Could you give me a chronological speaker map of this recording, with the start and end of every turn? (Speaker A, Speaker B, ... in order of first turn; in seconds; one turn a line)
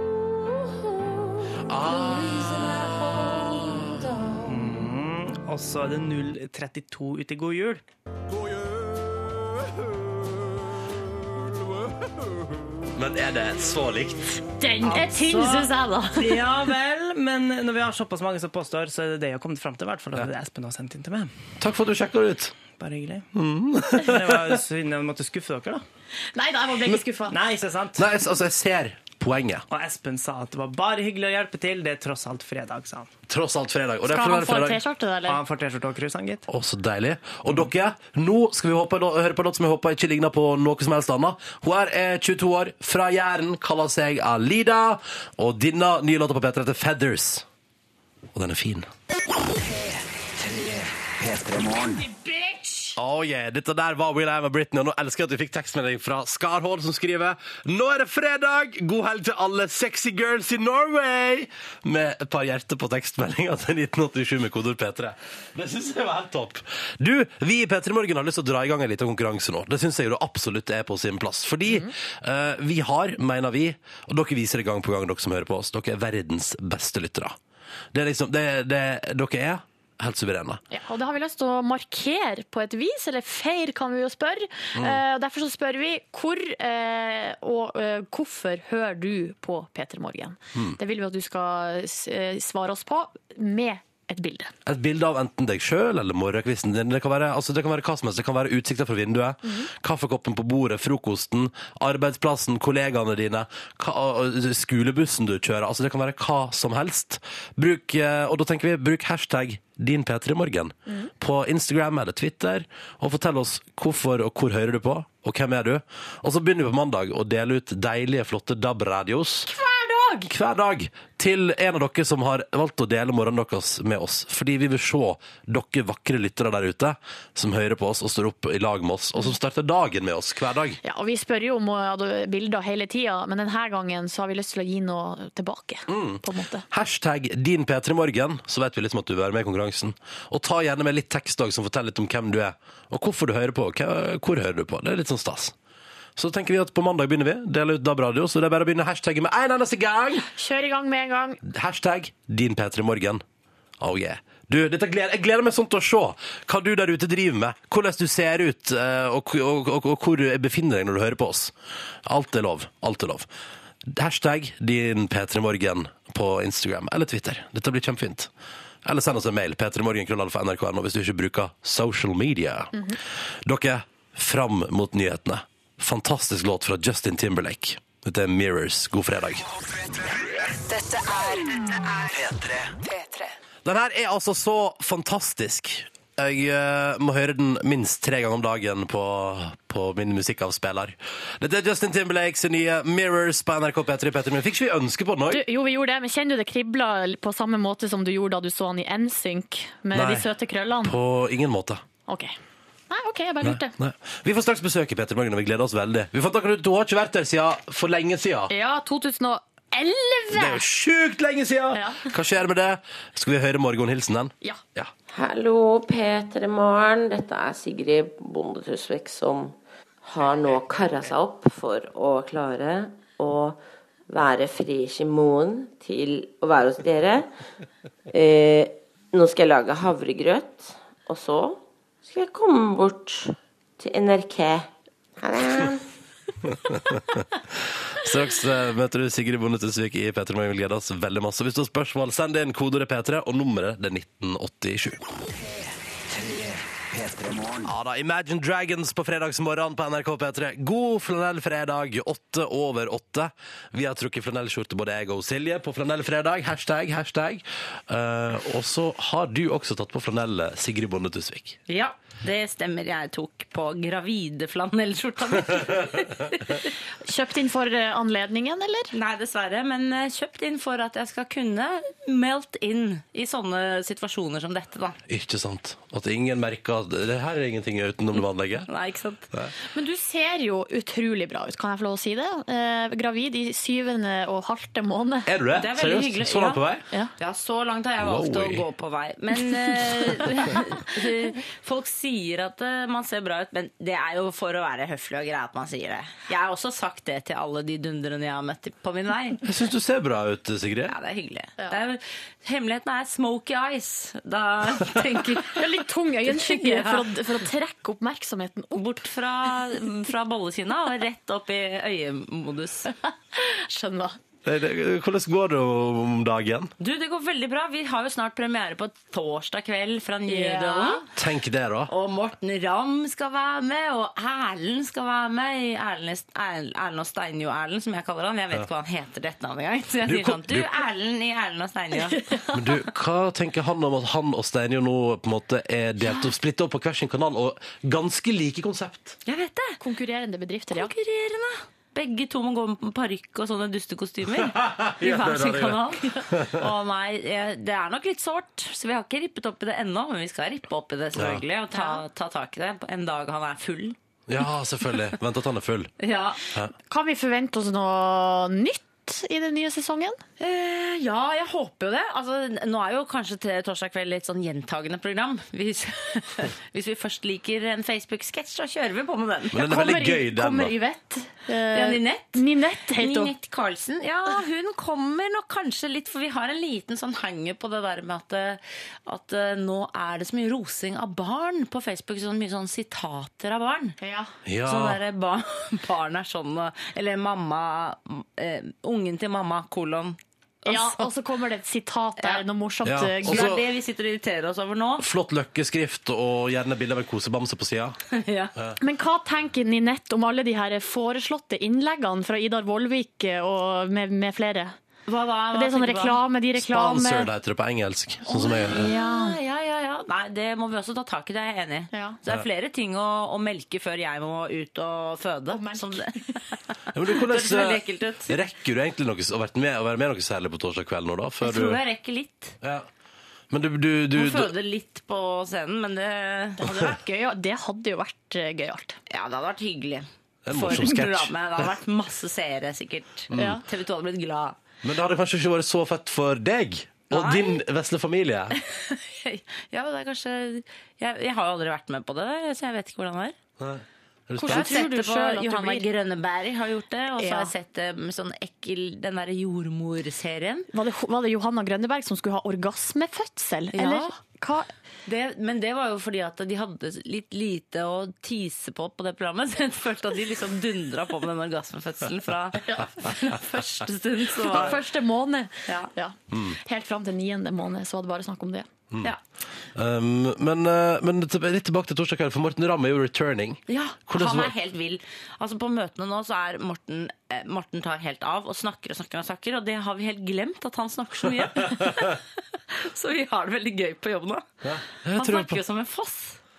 Speaker A: 1.7-4.1
Speaker B: 3.1-3.5
Speaker C: 4.4-7.8
Speaker A: 12.9-14.4
Speaker B: 14.6-16.4
Speaker C: 14.8-21.3
Speaker A: 21.6-22.6
Speaker C: 22.8-23.3
Speaker A: 23.4-24.6
Speaker C: 23.9-25.9
Speaker B: 26.4-27.4
Speaker C: 27.3-28.1
Speaker A: 28.0-29.6
Speaker C: 29.7-33.1
Speaker A: 33.3-34.8
Speaker B: 34.1-35.4
Speaker C: 35.3-36.5
Speaker A: 36.5-47.5
Speaker A: 48.3-48.9
Speaker B: 51.9-53.0
Speaker A: 53.0-77.4
Speaker A: 77.9-80.6
Speaker B: 80.7-94.5
Speaker A: 84.8-85.0
Speaker A: 94.7-119.5
Speaker B: 119.5-120.3
Speaker A: 120.3-130.8
Speaker B: 130.8-136.7
Speaker A: 135.9-145.6
Speaker A: 146.2-150.3
Speaker B: 150.3-151.4
Speaker A: 151.4-153.2
Speaker A: 153.8-163.3
Speaker A: 163.8-168.3
Speaker A: 168.8-172.8
Speaker B: 172.7-173.0
Speaker A: 173.4-179.5
Speaker D: 180.5-183.3
Speaker A: 183.6-195.4
Speaker B: 195.3-200.9
Speaker A: 199.9-200.3
Speaker A: 200.8-201.8
Speaker B: 202.1-202.3
Speaker B: 202.9-203.7
Speaker A: 203.4-208.5
Speaker B: 208.5-210.6
Speaker A: 210.3-214.9
Speaker B: 211.7-212.1
Speaker E: 215.1-227.3
Speaker E: 228.1-235.8
Speaker A: 236.5-245.1
Speaker A: 247.6-261.6
Speaker F: 261.7-266.7
Speaker B: 267.0-268.9
Speaker F: 268.9-275.0
Speaker A: 275.1-278.7
Speaker F: 278.7-279.3
Speaker B: 279.7-285.3
Speaker A: 285.3-286.8
Speaker F: 285.5-286.6
Speaker F: 287.2-299.4
Speaker A: 288.0-288.6
Speaker A: 299.4-300.9
Speaker F: 300.9-307.2
Speaker B: 305.6-308.9
Speaker F: 308.8-312.9
Speaker B: 313.4-314.2
Speaker A: 314.4-316.7
Speaker F: 316.8-321.1
Speaker B: 320.3-321.1
Speaker A: 321.1-321.9
Speaker F: 321.9-332.4
Speaker A: 330.1-330.7
Speaker B: 332.0-332.6
Speaker A: 332.5-339.2
Speaker F: 339.2-339.8
Speaker B: 339.8-340.9
Speaker F: 340.7-354.0
Speaker A: 344.4-346.6
Speaker A: 351.2-351.4
Speaker B: 351.7-352.0
Speaker A: 354.3-355.9
Speaker F: 356.0-356.4
Speaker B: 356.9-360.2
Speaker F: 360.4-369.6
Speaker A: 369.5-370.7
Speaker B: 369.6-373.3
Speaker F: 371.7-383.9
Speaker B: 384.0-384.3
Speaker A: 384.4-385.0
Speaker F: 384.6-391.1
Speaker B: 390.6-393.6
Speaker A: 392.9-393.6
Speaker F: 393.2-395.1
Speaker A: 395.0-398.0
Speaker F: 398.1-398.5
Speaker B: 398.8-404.8
Speaker F: 405.1-406.2
Speaker B: 405.5-407.3
Speaker A: 406.6-408.9
Speaker B: 408.3-409.4
Speaker F: 408.7-416.4
Speaker B: 411.9-412.2
Speaker B: 415.5-416.4
Speaker A: 416.9-421.8
Speaker F: 417.1-418.4
Speaker F: 421.4-422.6
Speaker A: 422.6-422.9
Speaker A: 423.5-424.5
Speaker F: 424.1-426.7
Speaker B: 426.6-429.0
Speaker F: 429.1-434.6
Speaker A: 430.4-431.7
Speaker A: 433.3-433.6
Speaker B: 433.4-433.6
Speaker A: 434.8-438.6
Speaker F: 437.1-437.6
Speaker F: 438.6-443.4
Speaker A: 443.6-444.7
Speaker B: 444.4-445.9
Speaker F: 444.4-450.7
Speaker B: 447.2-447.5
Speaker B: 450.7-454.7
Speaker F: 453.7-454.1
Speaker F: 455.1-464.9
Speaker B: 462.6-463.6
Speaker B: 464.5-468.7
Speaker F: 465.7-465.9
Speaker A: 469.7-474.5
Speaker F: 473.7-482.2
Speaker F: 482.8-484.5
Speaker A: 484.6-485.6
Speaker F: 485.1-486.4